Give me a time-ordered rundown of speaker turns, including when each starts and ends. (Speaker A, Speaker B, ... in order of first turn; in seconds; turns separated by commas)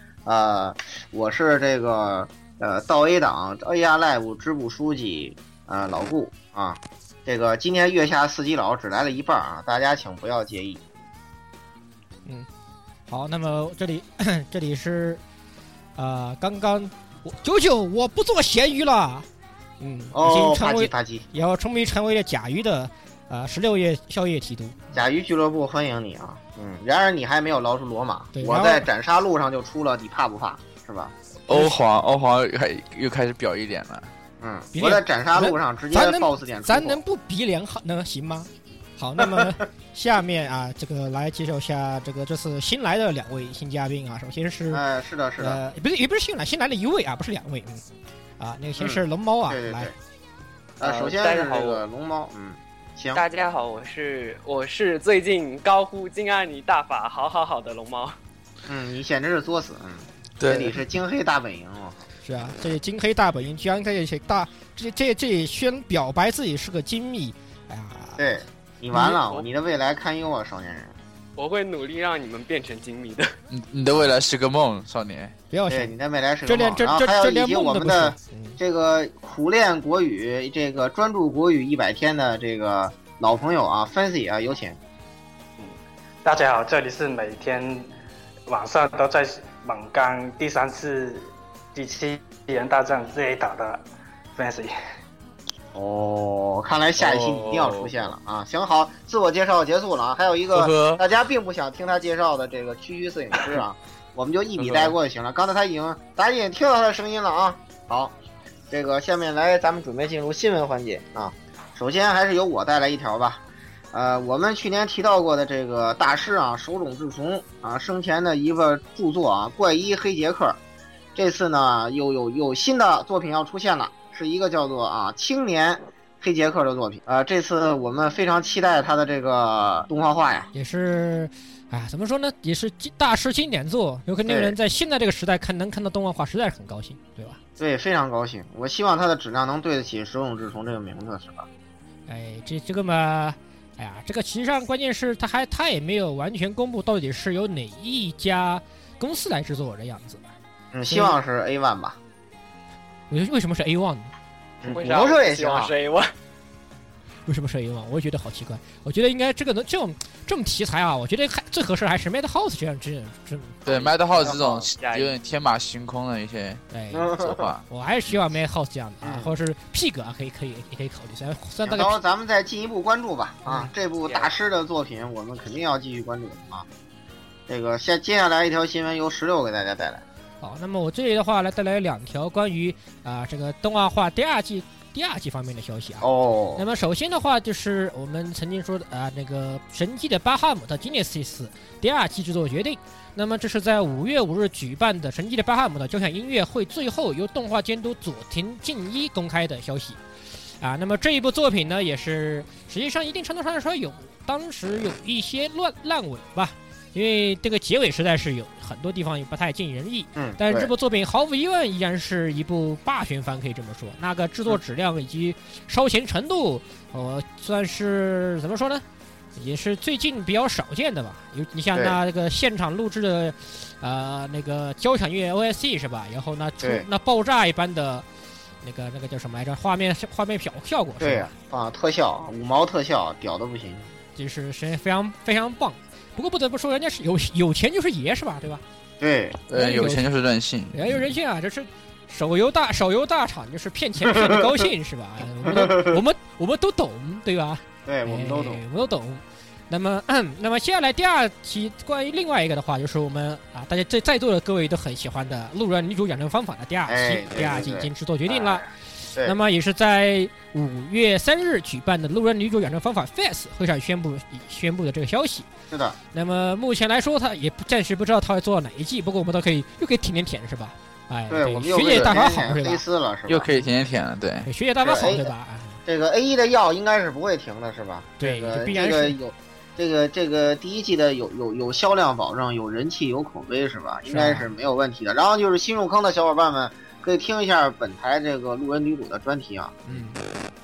Speaker A: 0.2-10.8, Speaker B: 13.1-15.2, Speaker B: 15.9-19.3, Speaker B: 19.8-25.0, Speaker A: 20.1-21.3, Speaker A: 24.9-31.1, Speaker B: 28.3-28.9, Speaker C: 31.5-34.1, Speaker A: 34.4-37.0, Speaker B: 34.7-44.8, Speaker A: 39.2-39.5, Speaker A: 44.7-45.6, Speaker B: 45.4-47.8, Speaker B: 48.4-49.9, Speaker A: 48.8-49.9, Speaker A: 50.8-53.2, Speaker D: 50.8-51.8, Speaker D: 53.1-58.2, Speaker A: 58.6-62.0, Speaker C: 60.4-60.7, Speaker B: 62.2-68.2, Speaker A: 68.2-71.0, Speaker B: 68.9-69.2, Speaker D: 69.2-69.5, Speaker D: 71.4-73.4, Speaker C: 73.5-75.3, Speaker B: 75.5-75.9, Speaker A: 75.7-84.8, Speaker B: 76.5-78.6, Speaker E: 85.6-87.9, Speaker E: 88.5-93.8, Speaker E: 94.3-94.7, Speaker A: 95.7-108.1, Speaker C: 97.0-97.9, Speaker C: 100.5-101.0, Speaker C: 104.6-104.9, Speaker A: 108.7-120.6, Speaker A: 121.1-130.5, Speaker B: 130.5-137.4, Speaker A: 134.2-134.6, Speaker A: 137.6-141.5, Speaker B: 142.1-150.3, Speaker A: 150.7-152.0, Speaker B: 150.9-151.2, Speaker B: 153.1-154.1, Speaker A: 154.6-155.7, Speaker D: 154.6-156.1, Speaker B: 157.3-163.6, Speaker C: 163.7-166.6, Speaker A: 164.1-164.7, Speaker D: 164.8-165.2, Speaker B: 166.7-167.1, Speaker A: 166.9-167.5, Speaker C: 167.2-168.1, Speaker B: 167.7-172.0, Speaker A: 169.0-169.3, Speaker A: 171.6-176.7, Speaker B: 173.4-173.7, Speaker D: 174.1-174.3, Speaker A: 177.5-180.0, Speaker B: 180.4-200.0, Speaker A: 186.0-186.6, Speaker B: 200.6-218.8, Speaker A: 210.1-210.7, Speaker B: 219.3-228.1, Speaker A: 221.7-222.0, Speaker A: 226.6-226.9, Speaker B: 228.6-231.3, Speaker A: 231.0-233.9, Speaker B: 234.2-238.6, Speaker A: 239.0-239.4, Speaker C: 239.5-241.0, Speaker B: 239.5-240.1, Speaker B: 240.7-265.5, Speaker A: 244.1-244.6, Speaker A: 245.4-246.0, Speaker A: 247.8-248.6, Speaker A: 256.9-259.4, Speaker A: 265.7-266.0, Speaker B: 266.1-272.8, Speaker A: 271.3-273.5, Speaker C: 273.3-274.5, Speaker B: 274.4-275.8, Speaker A: 274.8-275.3, Speaker A: 275.9-290.0, Speaker B: 278.2-279.2, Speaker B: 284.1-284.5, Speaker B: 289.9-290.2